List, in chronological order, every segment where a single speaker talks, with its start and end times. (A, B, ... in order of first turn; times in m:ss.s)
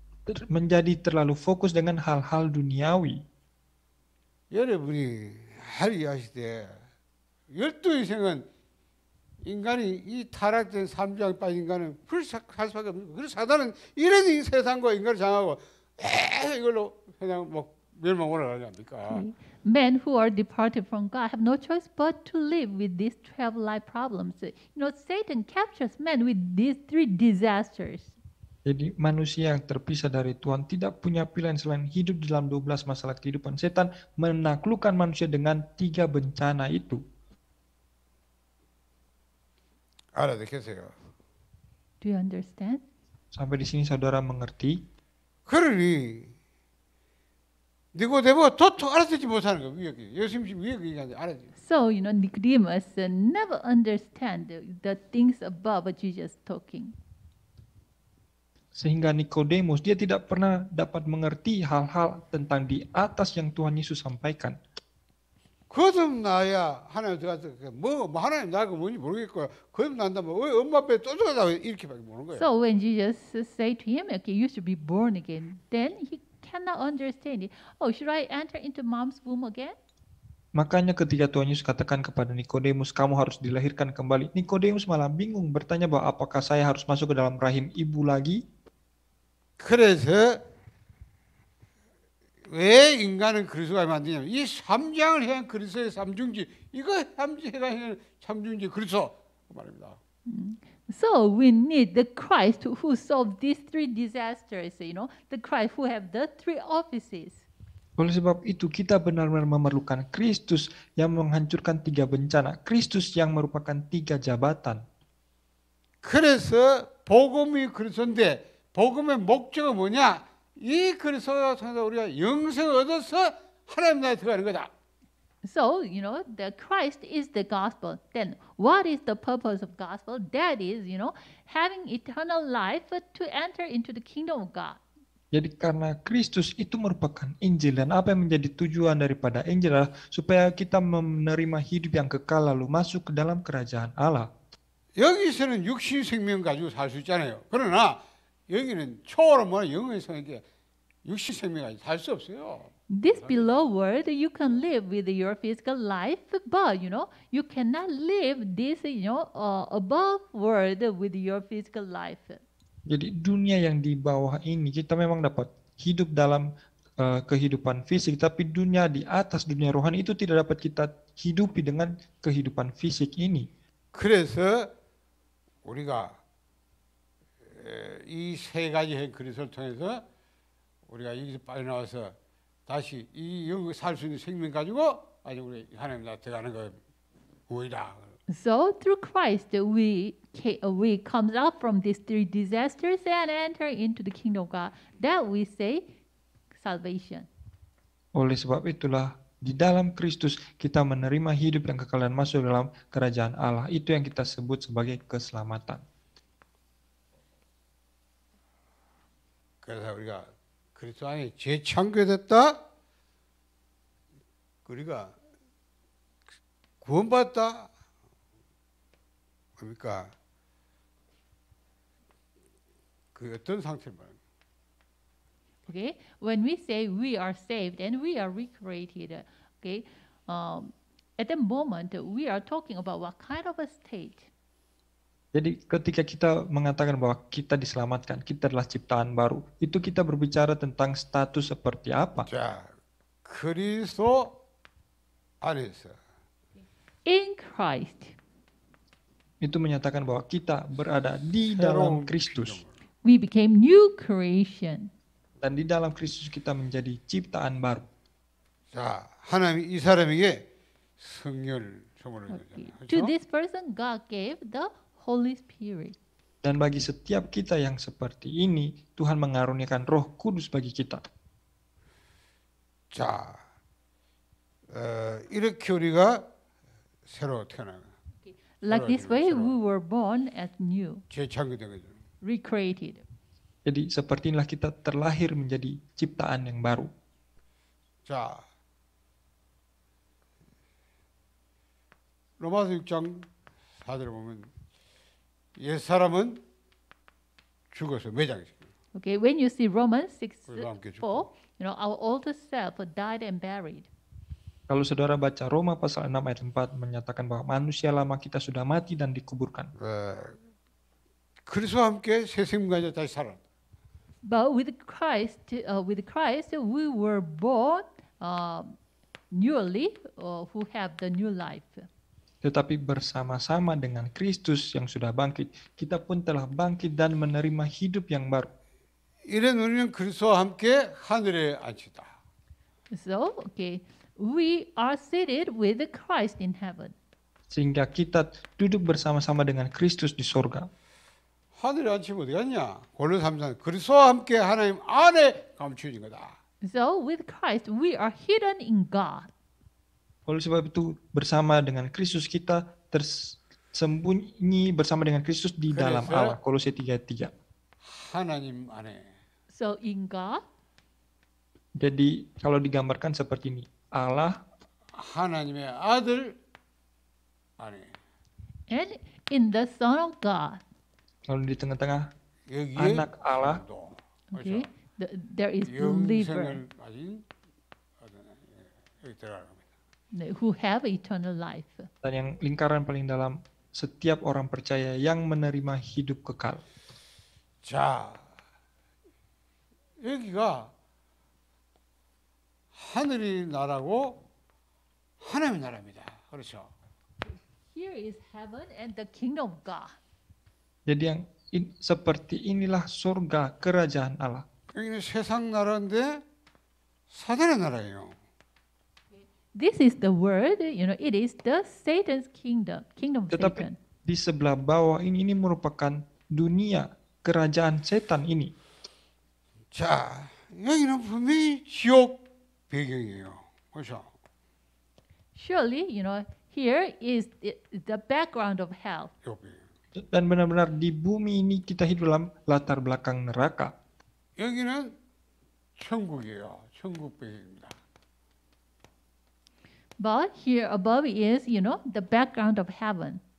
0:00.3-0:03.2 A
0:04.5-0:06.8 B
0:07.5-0:08.4 B
0:09.4-0:19.2 B
0:19.1-0:28.1 C
0:28.6-0:37.0 A
0:40.1-0:40.9 B
0:42.0-0:42.8 C
0:43.3-0:44.8 A
0:45.5-0:46.3 B
0:47.9-0:51.5 B
0:51.6-0:56.9 C
0:58.7-1:04.6 A
1:05.7-1:12.5 B
1:12.3-1:19.8 C
1:20.5-1:28.4 A
1:29.6-1:30.4 B
1:32.5-1:40.0 B
1:40.2-1:47.4 C
1:48.0-1:54.8 A
1:56.0-2:04.7 B
2:05.4-2:14.8 C
2:15.3-2:24.3 A
2:25.0-2:30.4 B
2:31.0-2:33.6 B
2:32.9-2:42.4 C
2:42.9-2:46.5 A
2:47.0-2:53.5 A
2:53.9-2:54.7 B
2:55.6-2:56.2 B
2:57.5-3:00.0 B
3:00.9-3:02.1 B
3:02.7-3:06.8 B
3:07.5-3:08.1 B
3:08.3-3:15.8 C
3:16.5-3:17.3 C
3:18.2-3:25.8 A
3:29.6-3:32.6 B
3:34.6-3:35.1 B
3:36.8-3:37.7 B
3:39.6-3:40.1 B
3:43.1-3:44.2 B
3:45.7-3:54.3 C
3:55.3-4:02.3 A
4:02.2-4:02.7 B
4:03.2-4:04.4 B
4:05.4-4:06.0 B
4:07.0-4:08.1 C
4:09.4-4:12.6 A
4:11.5-4:12.7 B
4:13.0-4:14.9 C
4:15.4-4:17.8 A
4:18.7-4:20.4 B
4:21.0-4:23.1 B
4:22.3-4:25.9 C
4:26.4-4:31.0 A
4:32.9-4:33.4 B
4:34.7-4:36.2 B
4:37.1-4:37.9 B
4:38.2-4:41.0 C
4:38.7-4:39.6 B
4:41.1-4:41.9 B
4:42.2-4:43.0 C
4:43.6-4:46.9 A
4:48.0-4:48.4 B
4:52.4-4:53.3 B
4:53.8-4:54.5 B
4:55.6-4:56.4 B
4:57.7-4:58.6 B
4:58.9-5:03.9 C
5:00.5-5:01.3 B
5:04.7-5:09.7 A
5:09.8-5:10.4 B
5:11.4-5:13.4 B
5:14.2-5:18.8 C
5:19.3-5:21.9 C
5:22.4-5:28.5 A
5:29.3-5:32.1 B
5:32.9-5:36.9 C
5:37.5-5:40.7 A
5:41.6-5:46.4 B
5:46.6-5:49.3 C
5:50.3-5:57.3 A
5:55.7-5:56.4 B
5:57.8-5:59.0 B
5:59.5-6:00.4 C
6:01.8-6:04.4 A
6:05.0-6:06.3 B
6:07.6-6:07.9 B
6:08.7-6:10.6 C
6:11.3-6:12.1 A
6:12.5-6:14.7 B
6:12.8-6:13.6 A
6:14.3-6:16.6 C
6:15.6-6:17.2 B
6:18.0-6:19.6 B
6:20.1-6:21.9 C
6:22.0-6:26.6 A
6:27.6-6:28.2 B
6:30.0-6:30.7 B
6:32.7-6:34.2 B
6:35.2-6:36.7 B
6:37.7-6:40.0 C
6:40.9-6:44.4 A
6:44.7-6:46.2 B
6:47.1-6:48.2 B
6:49.5-6:53.8 C
6:53.3-6:58.5 A
6:59.7-7:04.1 B
7:05.4-7:09.1 C
7:09.2-7:09.6 B
7:10.0-7:13.7 A
7:14.4-7:14.9 B
7:15.8-7:17.8 B
7:20.0-7:23.2 C